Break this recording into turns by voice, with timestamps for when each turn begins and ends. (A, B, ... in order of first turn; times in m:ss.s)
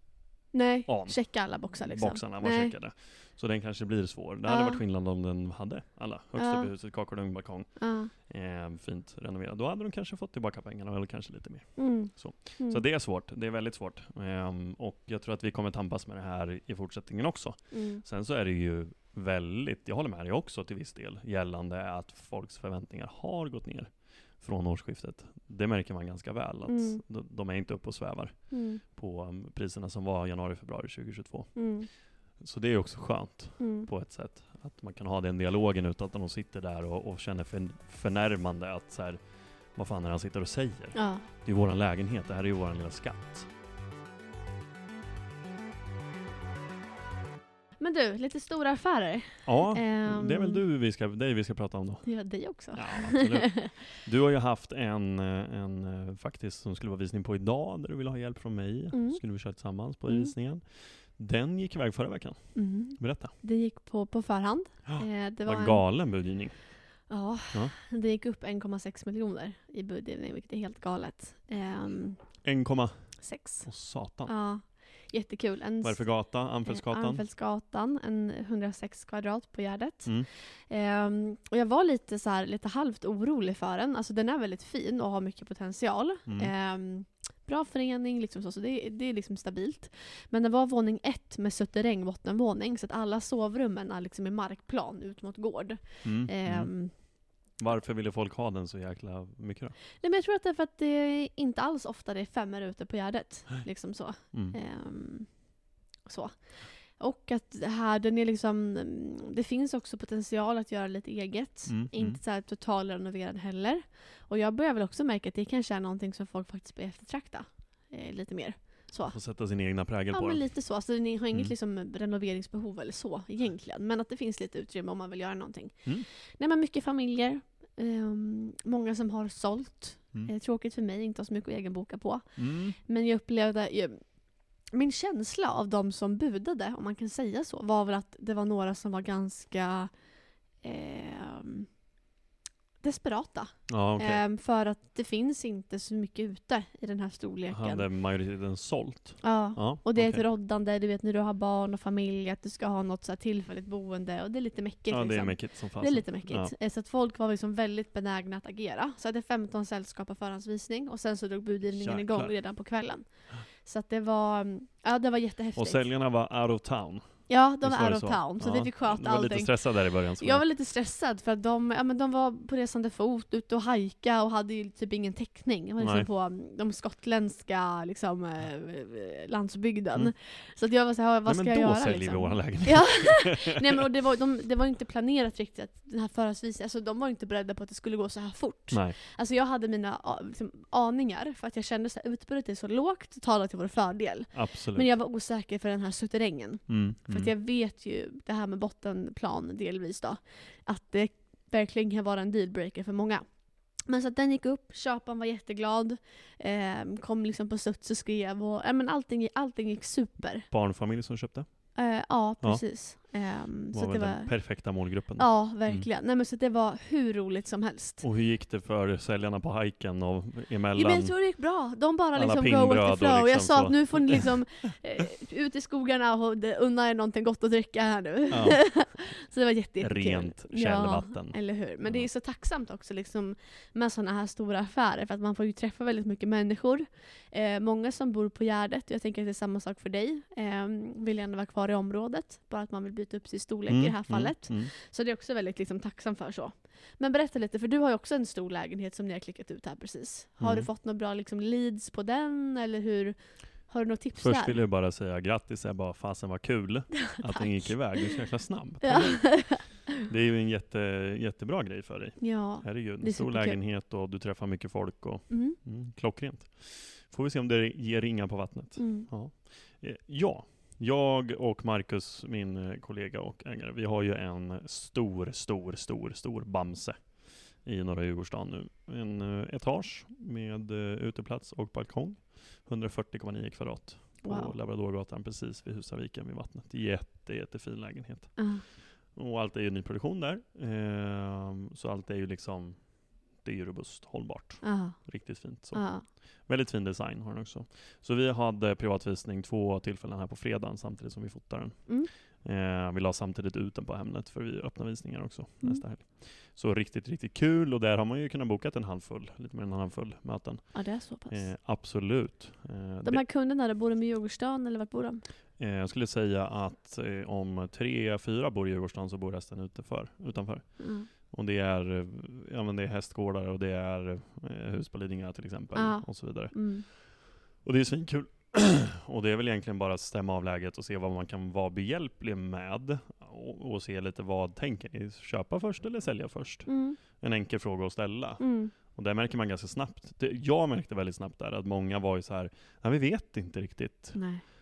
0:00.5-0:02.8 A
0:00.9-0:31.6 B
0:04.5-0:04.8 A
0:06.4-0:06.7 A
0:07.8-0:08.1 A
0:11.8-0:12.8 A
0:17.7-0:18.0 A
0:26.7-0:27.0 A
0:28.5-0:28.8 A
0:31.6-0:31.9 A
0:32.4-0:39.2 B
0:33.6-0:33.9 A
0:39.8-0:43.5 B
0:40.9-0:41.2 A
0:47.8-0:50.6 A
0:49.5-0:52.1 B
0:52.0-0:53.8 A
0:52.7-1:03.3 B
0:58.9-0:59.2 A
1:00.1-1:00.3 A
1:02.6-1:05.8 A
1:04.9-1:06.6 B
1:07.1-1:12.2 A
1:12.4-1:14.3 B
1:13.2-1:13.7 A
1:14.3-1:16.1 A
1:15.8-1:17.2 B
1:16.7-1:36.9 A
1:26.3-1:26.5 B
1:36.0-1:36.7 B
1:37.6-1:39.8 B
1:40.0-1:45.3 A
1:44.3-1:44.6 B
1:46.1-1:46.4 A
1:47.0-1:59.2 A
1:51.7-1:52.2 B
1:59.1-2:00.4 B
2:00.1-2:14.0 A
2:12.4-2:12.8 B
2:14.7-2:19.9 A
2:20.6-2:21.7 A
2:22.8-2:27.9 A
2:23.7-2:24.2 B
2:27.5-2:30.2 B
2:29.2-2:45.8 A
2:34.9-2:36.5 B
2:41.7-2:42.3 B
2:45.6-2:47.1 B
2:47.3-2:49.6 A
2:47.6-2:50.4 B
2:50.2-3:23.2 A
2:55.8-2:56.1 B
3:01.3-3:03.8 B
3:08.7-3:09.0 B
3:14.3-3:14.9 B
3:16.7-3:17.3 B
3:23.8-3:30.5 A
3:30.5-3:31.5 B
3:31.8-3:34.4 A
3:33.7-3:35.9 B
3:35.2-3:38.0 A
3:38.0-3:41.2 B
3:40.7-4:13.2 A
3:42.1-3:44.3 B
3:48.3-3:48.6 B
3:49.8-3:52.1 B
4:03.7-4:04.7 B
4:10.4-4:10.7 B
4:13.7-4:14.6 A
4:14.2-5:13.2 B
4:17.1-4:17.8 A
4:18.8-4:19.8 A
4:22.2-4:23.6 A
4:25.3-4:25.6 A
4:28.8-4:29.1 A
4:44.2-4:44.6 A
4:48.4-4:48.6 A
4:54.6-4:55.2 A
4:55.7-4:56.1 A
5:10.7-5:11.5 A
5:13.0-5:15.2 A
5:15.6-5:44.2 B
5:20.8-5:21.1 A
5:25.7-5:26.9 A
5:36.7-5:37.0 A
5:38.4-5:38.7 A
5:44.2-5:44.4 A